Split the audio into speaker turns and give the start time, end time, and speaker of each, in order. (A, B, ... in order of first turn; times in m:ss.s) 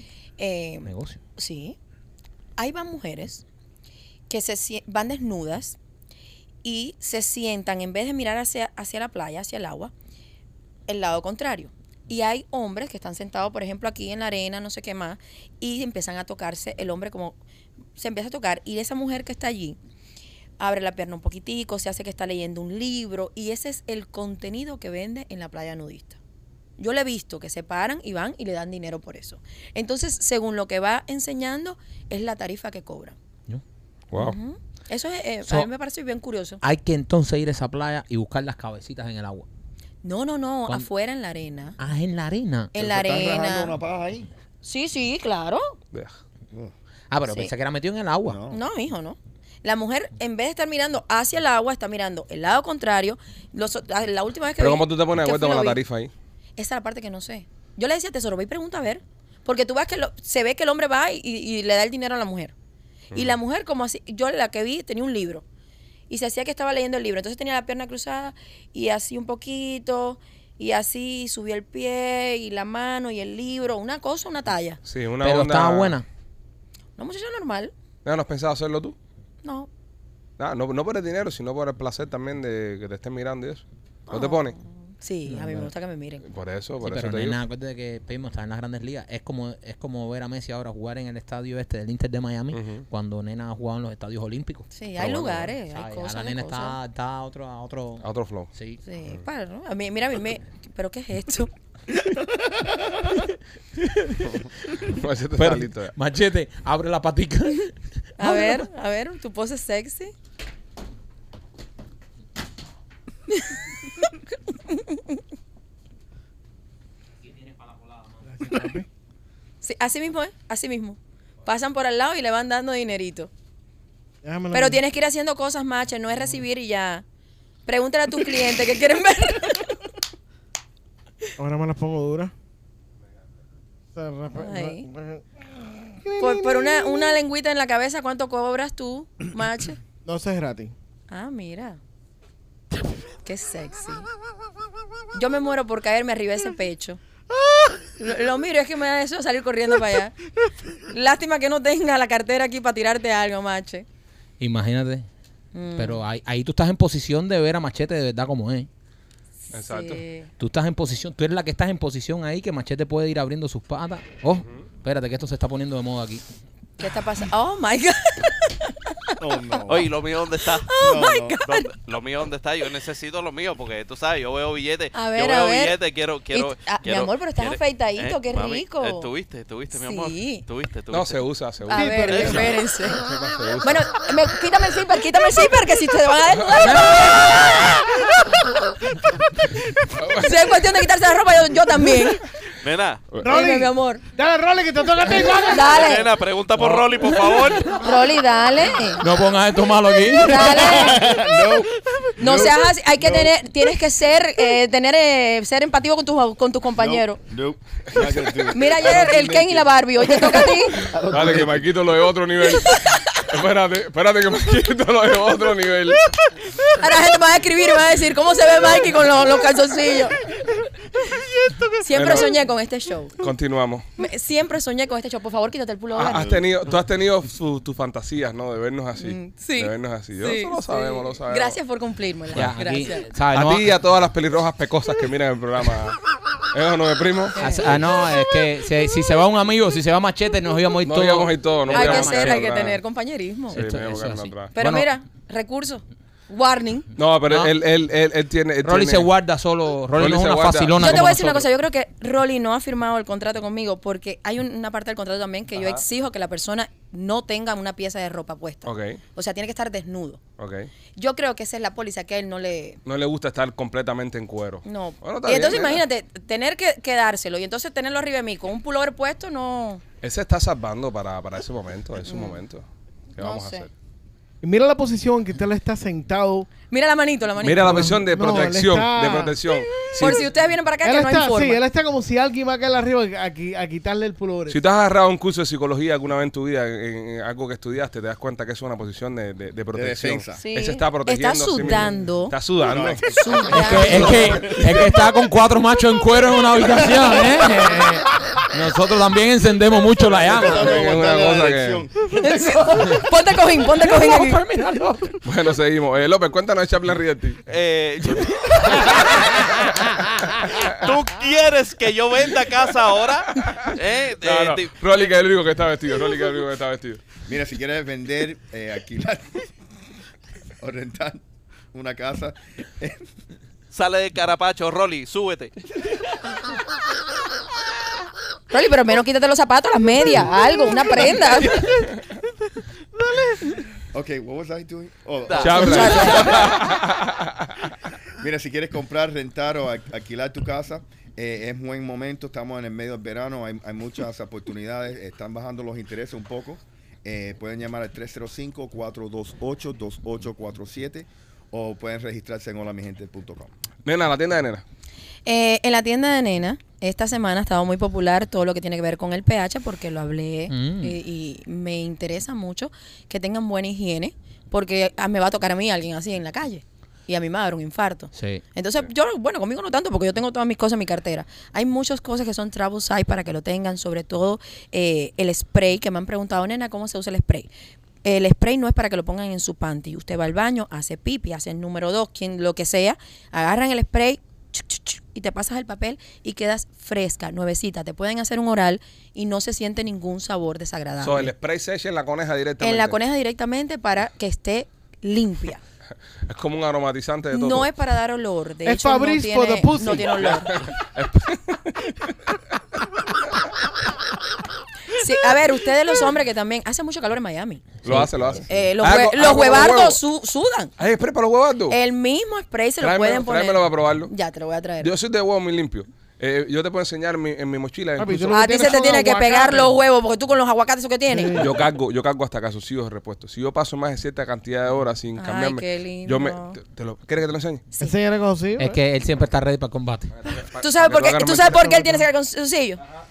0:00.4-0:01.8 A
0:00.8-0:01.2 B
0:02.6-0:03.4 A
0:04.3-0:05.8 A
0:06.6-0:09.9 A
0:10.9-0:17.4 A
0:18.0-0:19.8 A
0:20.6-0:26.2 A
0:26.8-0:33.2 A
0:34.1-0:34.4 C
0:34.2-0:36.6 A
0:36.6-0:39.5 B
0:40.0-0:41.8 A
0:41.8-0:42.7 B
0:42.7-0:43.8 A
0:42.8-0:44.3 D
0:44.6-0:45.7 A
0:47.1-0:48.4 B
0:48.3-0:48.6 D
0:48.5-0:55.8 A
0:54.6-0:56.1 C
0:56.6-1:02.5 A
1:03.1-1:05.4 A
1:06.1-1:14.8 A
1:14.8-1:16.0 C
1:15.2-1:16.1 B
1:17.0-1:17.7 A
1:18.0-1:19.0 C
1:19.4-1:19.7 A
1:20.4-1:24.6 C
1:24.1-1:26.2 A
1:25.3-1:25.7 B
1:26.2-1:27.4 C
1:26.8-1:34.7 B
1:32.5-1:32.8 C
1:34.7-1:36.8 A
1:35.0-1:35.5 C
1:35.7-1:38.8 B
1:38.0-1:38.5 C
1:38.8-1:41.5 A
1:43.8-1:48.6 B
1:44.8-1:45.9 C
1:48.2-1:50.1 A
1:53.3-1:54.1 A
1:54.7-1:55.2 A
1:57.2-1:58.5 B
1:58.3-1:58.9 E
1:59.6-2:03.3 A
2:04.2-2:04.8 E
2:04.5-2:07.0 A
2:07.7-2:09.9 A
2:11.4-2:12.3 E
2:14.0-2:15.2 E
2:14.3-2:14.9 A
2:16.0-2:17.2 E
2:16.2-2:19.8 A
2:20.0-2:20.7 E
2:21.1-2:21.8 A
2:23.2-2:24.1 A
2:25.1-2:27.0 A
2:27.4-2:27.8 E
2:28.0-2:30.1 A
2:30.9-2:33.8 A
2:34.4-2:35.1 B
2:35.5-2:36.0 A
2:35.8-2:38.7 B
2:39.5-2:40.0 C
2:39.6-2:40.3 A
2:40.4-2:46.2 B
2:46.8-2:49.6 A
2:49.2-2:49.9 D
2:49.7-3:01.2 F
2:50.6-2:51.7 A
2:50.8-2:51.4 D
2:54.9-2:55.8 A
2:56.3-2:59.1 A
2:59.7-3:00.4 A
3:00.9-3:03.8 C
3:01.7-3:03.0 A
3:01.7-3:02.6 E
3:02.1-3:02.4 F
3:03.6-3:08.4 A
3:06.5-3:07.6 C
3:09.9-3:10.6 C
3:10.1-3:12.3 A
3:12.6-3:13.1 F
3:13.2-3:15.9 E
3:13.2-3:14.0 A
3:15.4-3:16.2 A
3:15.7-3:17.8 F
3:17.7-3:19.0 A
3:19.0-3:20.6 B
3:20.1-3:21.2 A
3:20.5-3:23.4 D
3:22.2-3:27.2 A
3:26.8-3:31.7 D
3:28.5-3:30.9 A
3:31.1-3:36.1 C
3:32.4-3:33.2 A
3:36.6-3:40.3 A
3:41.1-3:41.8 E
3:41.8-3:43.2 A
3:41.9-3:42.4 C
3:43.2-3:43.9 C
3:44.0-3:46.4 A
3:46.0-3:51.6 C
3:49.0-3:53.1 A
3:52.3-3:53.7 B
3:53.3-3:56.0 C
3:56.5-3:57.8 C
3:57.4-3:57.7 A
3:57.4-4:02.4 B
4:00.8-4:02.8 C
4:01.7-4:03.6 A
4:03.5-4:04.5 C
4:03.5-4:04.9 B
4:04.6-4:06.9 A
4:07.0-4:09.1 C
4:07.3-4:07.5 B
4:08.6-4:11.4 B
4:10.0-4:11.4 C
4:10.8-4:20.2 A
4:15.6-4:15.8 C
4:18.7-4:19.0 C
4:20.4-4:20.7 C
4:21.0-4:22.8 A
4:22.8-4:25.8 C
4:24.6-4:29.8 A
4:30.0-4:32.7 C
4:32.0-4:32.4 A
4:33.2-4:33.7 C
4:33.2-4:33.7 A
4:34.4-4:36.5 E
4:36.7-4:38.0 A
4:37.4-4:40.3 C
4:37.6-4:40.1 E
4:40.0-4:41.6 A
4:40.8-4:44.6 E
4:44.5-4:54.8 C
4:49.7-4:50.4 D
4:50.4-4:52.4 A
4:52.6-4:54.8 D
4:53.1-4:54.5 A
4:53.5-5:00.7 B
5:00.2-5:02.2 D
5:00.2-5:01.8 C
5:02.1-5:04.4 A
5:03.8-5:05.2 B
5:05.2-5:07.4 C
5:07.5-5:09.3 F
5:08.9-5:09.5 C
5:10.4-5:10.9 C
5:10.7-5:15.1 F
5:13.3-5:17.0 C
5:17.3-5:19.4 D
5:20.6-5:23.1 D
5:23.7-5:25.5 F
5:28.5-5:31.8 A
5:33.0-5:33.5 E
5:33.9-5:36.5 D
5:35.3-5:36.4 F
5:35.4-5:37.7 C
5:35.5-5:36.5 A
5:38.2-5:53.5 D
5:53.8-5:54.6 C
5:55.3-6:17.5 A
6:00.5-6:01.0 B
6:08.1-6:08.4 B
6:18.0-6:31.3 A
6:31.0-6:33.0 C
6:32.6-6:35.6 A
6:36.3-6:37.7 C
6:37.3-6:40.6 A
6:38.6-6:40.2 E
6:40.2-6:42.2 C
6:44.9-6:47.8 A
6:47.8-6:48.1 B
6:47.8-6:50.0 C
6:48.4-6:50.8 A
6:50.8-6:51.8 C
6:51.7-6:54.9 A
6:52.8-6:54.1 C
6:54.8-6:58.6 C
6:58.0-6:59.7 E
6:58.3-7:01.5 A
7:01.1-7:01.5 E
7:01.4-7:07.7 C
7:05.2-7:06.6 A
7:07.8-7:08.8 E
7:08.6-7:10.1 B
7:10.2-7:11.7 C
7:10.5-7:12.8 A
7:11.6-7:12.0 E